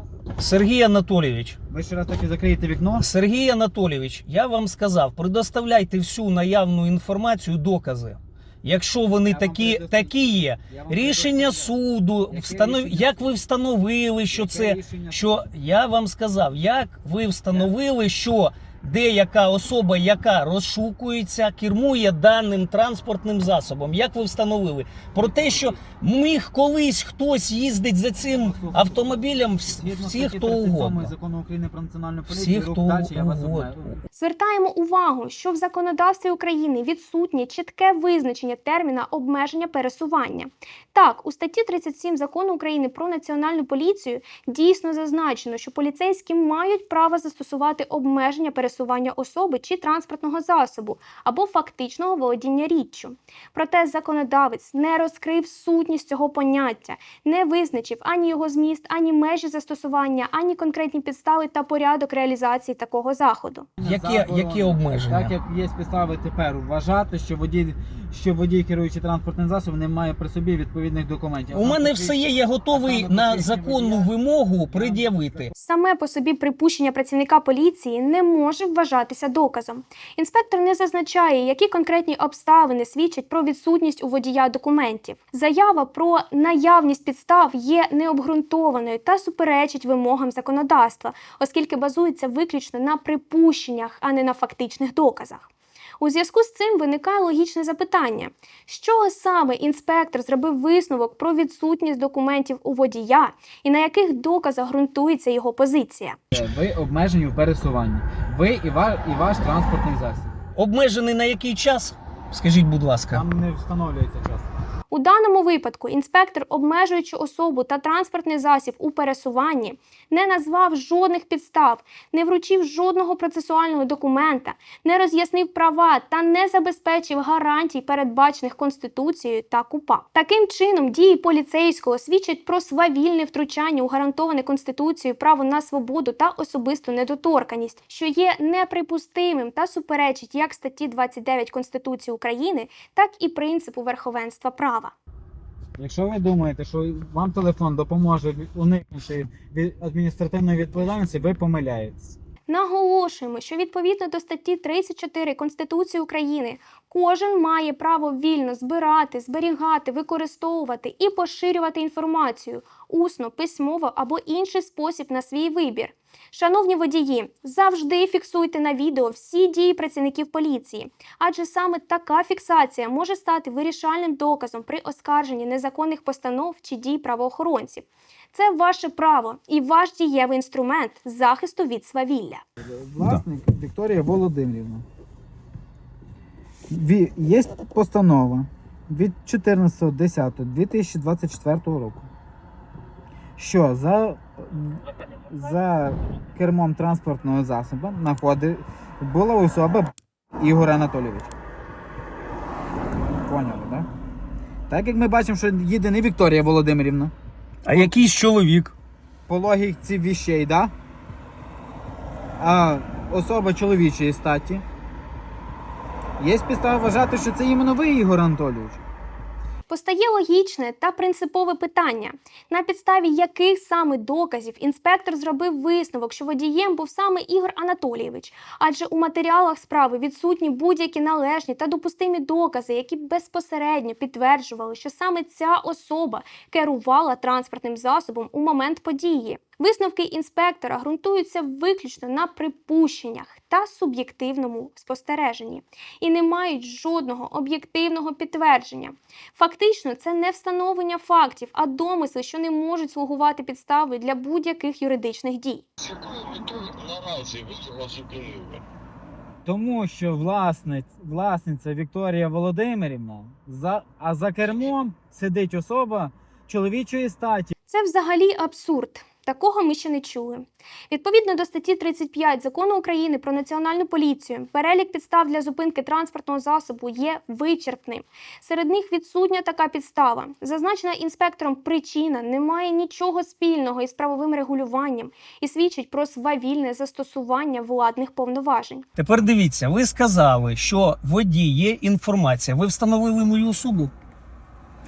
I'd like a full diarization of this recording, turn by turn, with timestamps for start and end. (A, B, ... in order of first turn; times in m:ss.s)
0:00.4-0:01.6 A
0:01.7-0:03.0 B
0:03.0-0:31.1 A
0:09.3-0:11.8 B
0:12.3-0:13.3 B
0:14.3-0:15.5 B
0:25.2-0:25.8 B
0:28.3-0:34.0 B
0:32.3-0:33.9 A
0:34.1-1:03.7 C
1:03.8-1:14.1 B
1:03.8-1:05.3 A
1:11.5-1:15.5 A
1:14.7-1:15.5 B
1:15.6-1:35.4 C
1:36.0-1:46.2 C
1:46.3-1:50.3 B
1:50.6-1:53.2 A
1:53.1-1:54.5 B
1:54.9-2:24.9 C
2:25.8-2:32.2 B
2:32.5-3:02.4 C
3:02.6-3:04.8 B
3:06.7-3:12.1 B
3:13.4-3:21.3 B
3:23.2-3:23.9 B
3:24.7-3:27.1 B
3:27.6-3:28.7 A
3:29.3-3:30.7 B
3:32.4-3:34.6 B
3:36.2-3:38.8 B
3:39.7-4:15.6 C
4:16.0-4:18.6 D
4:19.4-4:27.5 B
4:27.7-4:48.8 C
4:49.0-4:53.9 A